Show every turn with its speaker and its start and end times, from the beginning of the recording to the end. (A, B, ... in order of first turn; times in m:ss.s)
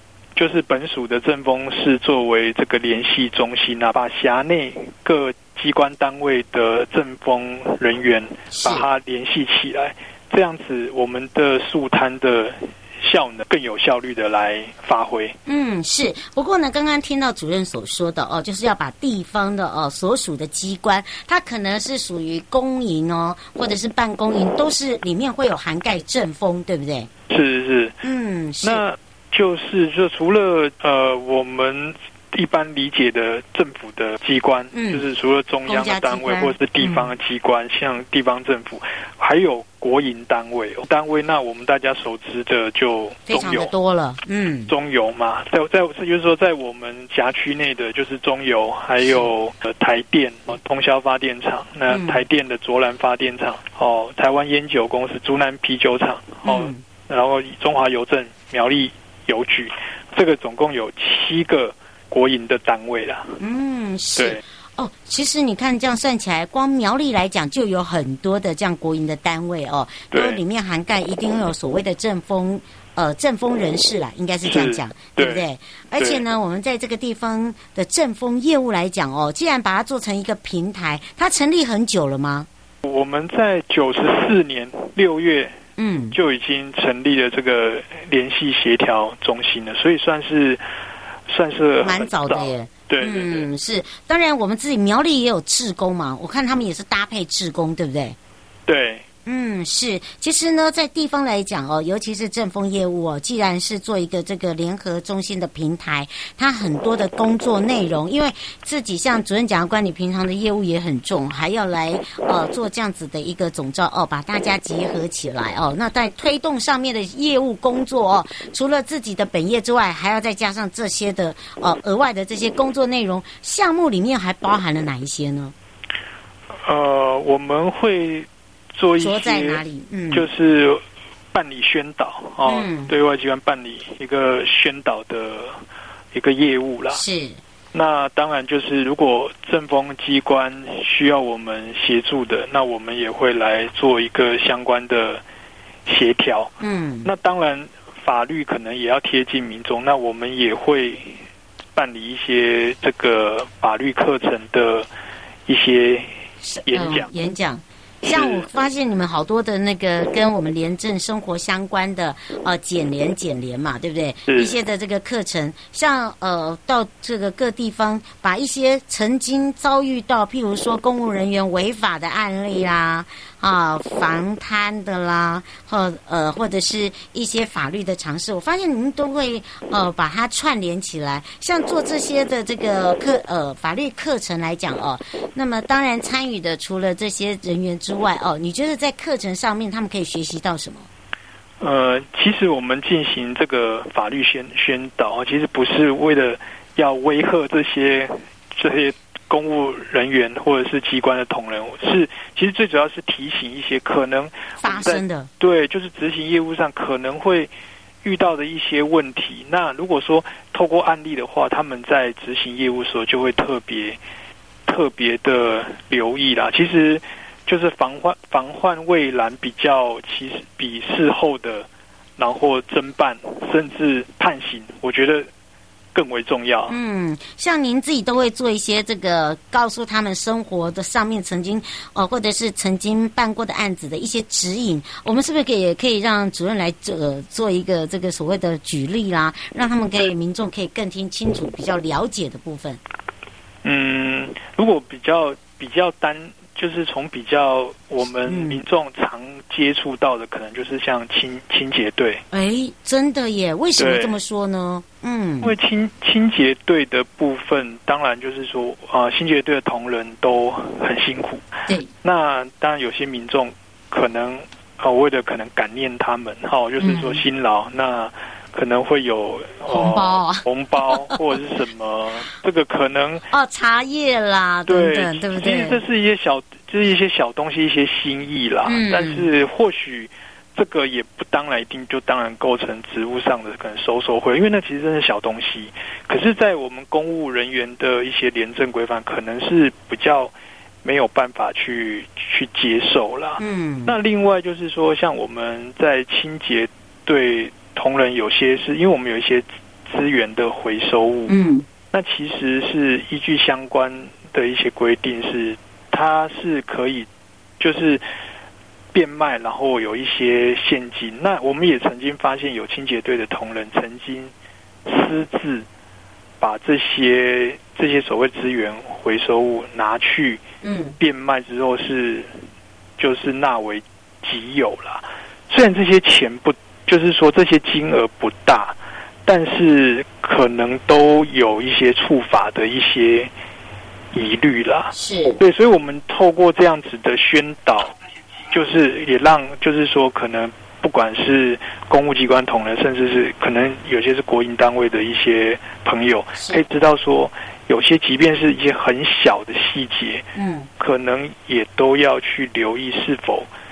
0:00.4-0:15.4 A
0:08.5-0:08.9 B
0:15.5-0:27.1 B
0:27.3-0:28.0 A
0:28.0-0:28.8 B
0:28.6-0:43.7 A
0:34.7-0:35.0 B
0:35.7-0:37.1 B
0:43.3-0:44.7 B
0:44.7-1:03.4 A
0:51.9-0:52.2 B
0:56.4-0:56.8 B
1:03.4-1:22.5 B
1:10.1-1:10.4 A
1:14.4-1:15.5 A
1:16.0-1:16.2 A
1:22.8-1:25.5 A
1:25.8-1:26.2 B
1:26.1-1:30.6 A
1:31.3-1:33.5 A
1:31.8-1:38.2 B
1:38.7-1:39.0 A
1:39.3-2:05.5 B
2:06.6-2:10.8 A
2:09.0-2:10.3 B
2:11.3-2:15.6 A
2:12.4-2:12.9 B
2:16.1-2:17.0 A
2:16.9-2:17.4 B
2:17.7-2:25.2 A
2:25.9-2:26.5 A
2:26.6-2:27.1 B
2:27.0-2:31.2 A
2:31.8-2:34.9 A
2:35.5-2:36.1 A
2:36.4-3:10.9 B
2:36.7-2:37.1 A
2:38.0-2:38.5 A
2:44.3-2:44.6 A
3:11.6-3:27.5 A
3:24.6-3:25.3 B
3:28.0-3:34.0 A
3:34.7-3:41.7 A
3:42.2-3:45.3 A
3:45.9-3:46.8 A
3:46.7-4:02.8 B
4:03.6-4:12.2 A
4:08.3-4:08.6 B
4:12.3-4:15.5 B
4:13.8-4:14.2 A
4:15.4-4:21.4 A
4:22.0-4:33.3 A
4:26.8-4:27.2 B
4:29.7-4:31.2 B
4:33.3-4:35.8 B
4:34.7-4:50.3 A
4:38.7-4:39.3 B
4:50.8-5:01.3 A
4:53.4-4:54.0 B
5:01.3-5:01.7 B
5:01.9-5:07.1 A
5:07.6-5:08.0 A
5:08.9-5:14.3 A
5:14.9-5:15.7 A
5:16.4-5:20.4 A
5:20.6-5:21.0 B
5:21.0-5:22.3 A
5:23.0-5:28.8 A
5:29.3-5:33.3 A
5:34.1-5:38.0 A
5:34.9-5:35.4 B
5:38.5-5:50.2 A
5:46.4-5:46.6 B
5:50.4-5:50.7 B
5:50.8-5:53.5 A